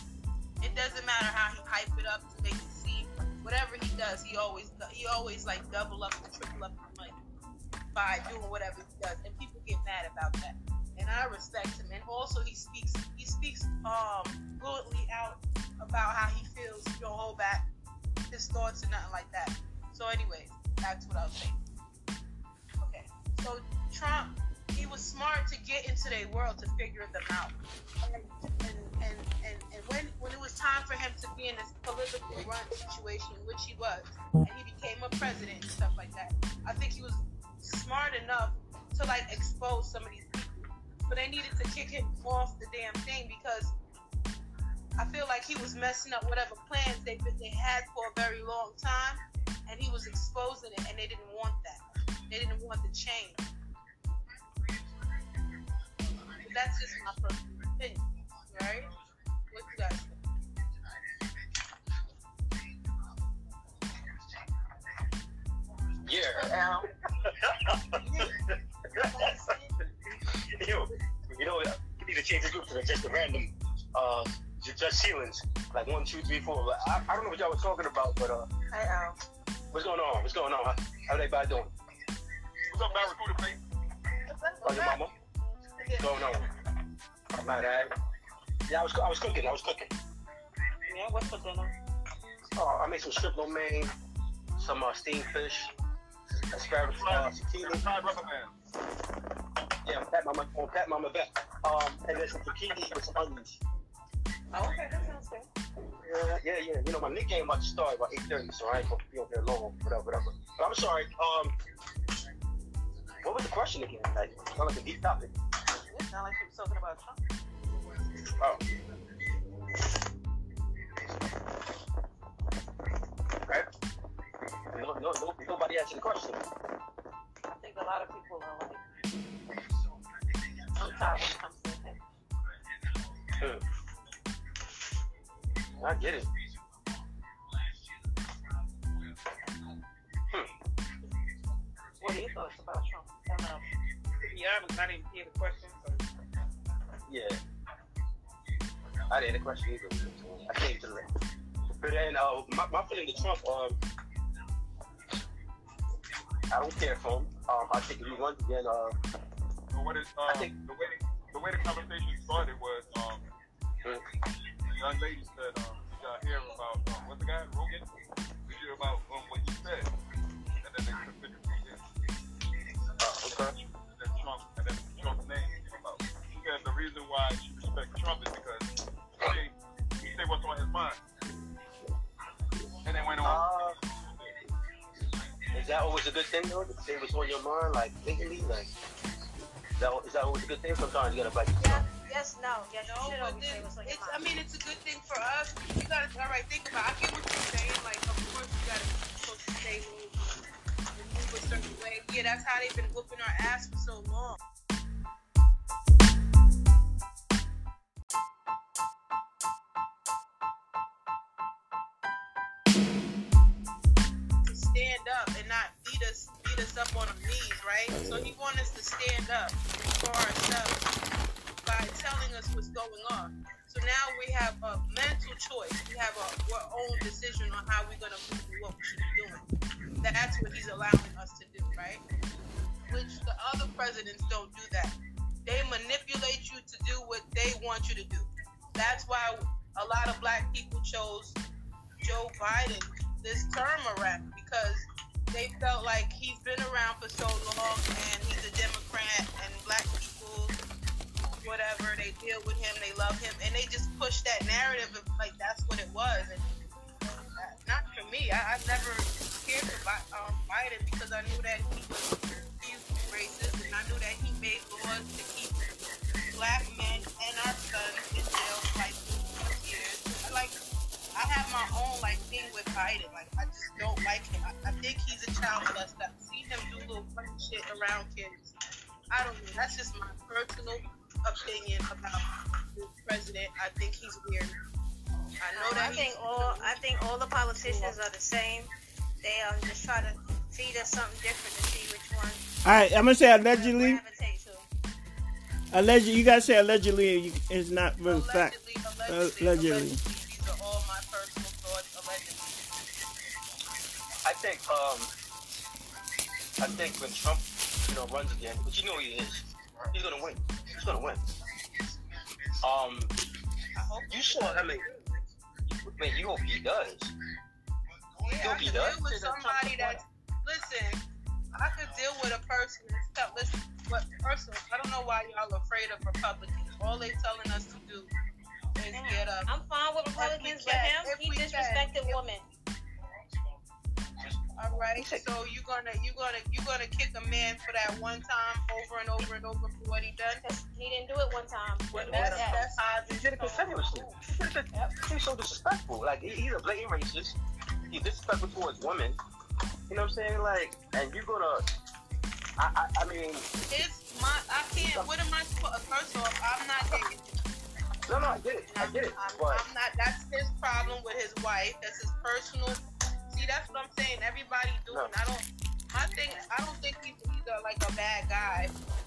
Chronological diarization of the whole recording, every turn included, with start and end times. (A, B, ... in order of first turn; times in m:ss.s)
0:00.6-0:07.2 A
0:08.0-0:17.7 A
0:18.3-0:21.6 A
0:23.3-0:43.7 A
0:45.0-0:53.5 A
0:56.4-0:58.9 A
0:59.5-1:00.2 A
1:06.0-1:06.6 B
1:06.4-1:06.8 C
1:07.6-1:08.3 B
1:08.0-1:08.2 A
1:08.9-1:09.9 A
1:09.0-1:09.4 B
1:10.4-1:18.5 B
1:18.7-1:19.2 C
1:19.7-1:21.7 B
1:22.7-1:23.6 D
1:24.3-1:25.0 C
1:24.6-1:25.1 B
1:25.9-1:26.5 B
1:27.4-1:27.9 B
1:28.7-1:29.9 B
1:30.9-1:31.7 C
1:32.6-1:33.9 B
1:34.6-1:35.7 B
1:36.5-1:38.1 B
1:36.9-1:38.5 D
1:39.8-1:43.6 B
1:44.5-1:45.5 C
1:46.0-1:51.5 B
1:53.2-1:55.3 B
1:55.9-1:57.2 C
2:04.7-2:06.4 B
2:07.5-2:08.8 C
2:10.8-2:12.0 C
2:15.8-2:16.3 B
2:22.0-2:23.6 C
2:24.2-2:26.1 E
2:27.1-2:27.4 B
2:29.1-2:31.0 B
2:31.8-2:33.8 B
2:36.5-2:39.0 B
2:39.7-2:43.3 D
2:40.2-2:40.5 B
2:44.7-2:47.9 D
2:48.5-2:49.9 D
2:50.6-2:51.8 D
2:53.0-2:53.6 B
2:53.2-2:58.7 D
2:59.2-3:01.0 D
3:02.8-3:04.3 D
3:03.2-3:03.8 B
3:05.5-3:08.7 B
3:09.8-3:11.8 B
3:11.6-3:14.3 F
3:12.9-3:20.4 A
3:21.0-3:24.4 A
3:34.4-3:40.8 A
3:41.6-3:49.4 A
3:50.0-3:52.0 A
3:52.9-4:01.4 A
4:02.0-4:10.6 A
4:11.4-4:16.4 A
4:17.1-4:25.8 A
4:26.3-4:30.6 A
4:31.2-4:38.5 A
4:39.1-4:44.6 A
4:45.4-4:46.8 A
4:45.5-4:52.4 F
4:47.6-4:48.0 A
4:52.6-4:54.0 G
4:53.4-4:54.7 F
4:55.7-4:58.6 G
4:58.0-5:02.6 A
4:59.1-5:00.0 G
5:04.2-5:05.1 B
5:06.6-5:11.2 B
5:12.6-5:13.1 B
5:13.8-5:14.5 E
5:14.0-5:15.1 B
5:15.7-5:17.1 B
5:18.2-5:21.0 A
5:18.4-5:19.1 B
5:19.0-5:20.0 C
5:21.5-5:28.1 A
5:28.8-5:29.5 A
5:29.5-5:32.5 F
5:30.2-5:32.2 A
5:34.6-5:40.4 A
5:35.0-5:35.3 B
5:40.4-5:42.7 F
5:41.9-5:43.9 A
5:42.1-5:47.4 B
5:47.9-5:49.2 B
5:49.9-5:51.7 B
5:52.6-5:53.4 B
5:53.7-5:57.2 A
5:54.8-5:55.1 B
5:58.1-5:59.7 B
5:58.7-6:08.7 A